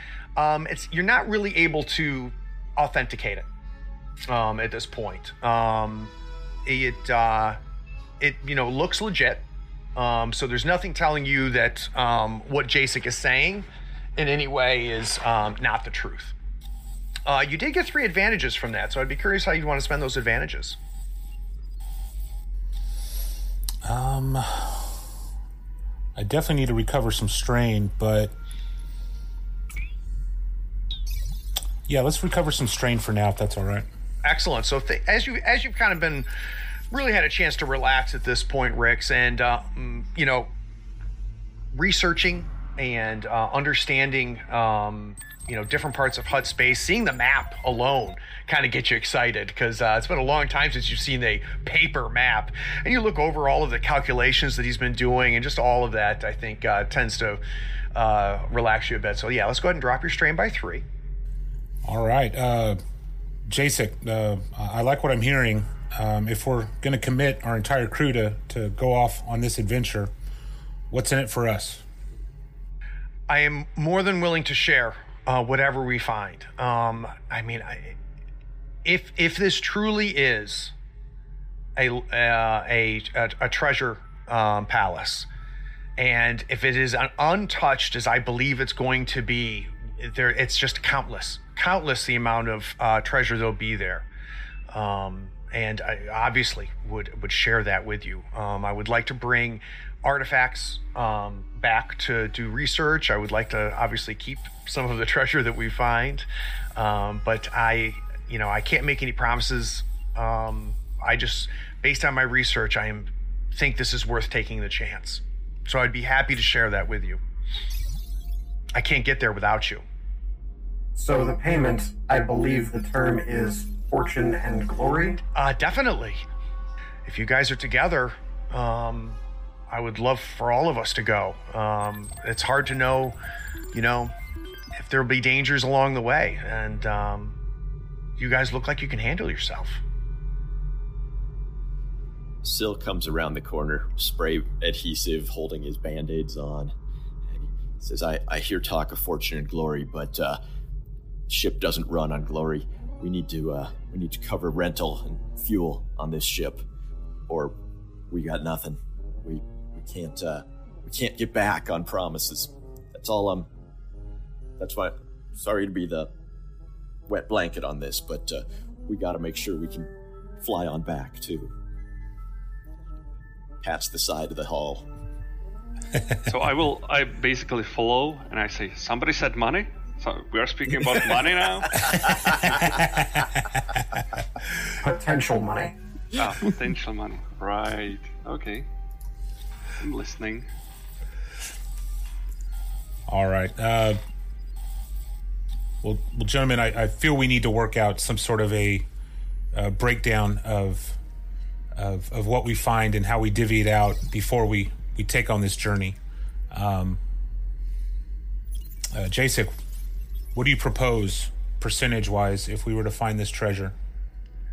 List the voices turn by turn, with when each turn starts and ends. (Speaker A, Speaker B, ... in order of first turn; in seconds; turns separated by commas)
Speaker A: 0.3-3.5, Speaker A: 4.3-6.1, Speaker A: 6.7-7.6, Speaker A: 8.2-9.4, Speaker A: 9.9-16.3, Speaker A: 17.2-20.8, Speaker B: 23.8-25.0, Speaker B: 26.1-28.3, Speaker B: 31.9-33.9, Speaker A: 34.2-36.3, Speaker A: 36.9-40.5, Speaker A: 41.7-57.4, Speaker A: 57.9-60.8, Speaker B: 61.8-62.8, Speaker B: 63.5-70.1, Speaker B: 70.9-71.8, Speaker A: 73.3-78.0, Speaker A: 78.8-80.7, Speaker A: 81.8-85.3, Speaker A: 86.0-94.1, Speaker A: 94.7-117.2, Speaker A: 118.7-119.8, Speaker C: 121.0-125.2, Speaker A: 125.3-126.2, Speaker A: 127.0-133.2, Speaker A: 133.7-134.1, Speaker A: 134.8-137.4, Speaker A: 138.2-139.8, Speaker D: 142.4-146.7, Speaker D: 147.3-150.4, Speaker D: 151.3-156.6, Speaker D: 157.3-157.5, Speaker D: 158.1-163.5, Speaker D: 164.6-166.1, Speaker D: 167.1-171.5, Speaker D: 173.6-174.9, Speaker E: 176.3-181.8, Speaker B: 182.6-183.8, Speaker C: 184.8-185.7, Speaker E: 186.2-188.7, Speaker E: 189.8-190.5, Speaker B: 193.1-194.0, Speaker B: 195.8-198.9, Speaker B: 199.5-201.0, Speaker B: 201.7-206.0, Speaker B: 206.5-207.0, Speaker B: 208.9-209.5, Speaker B: 210.3-213.7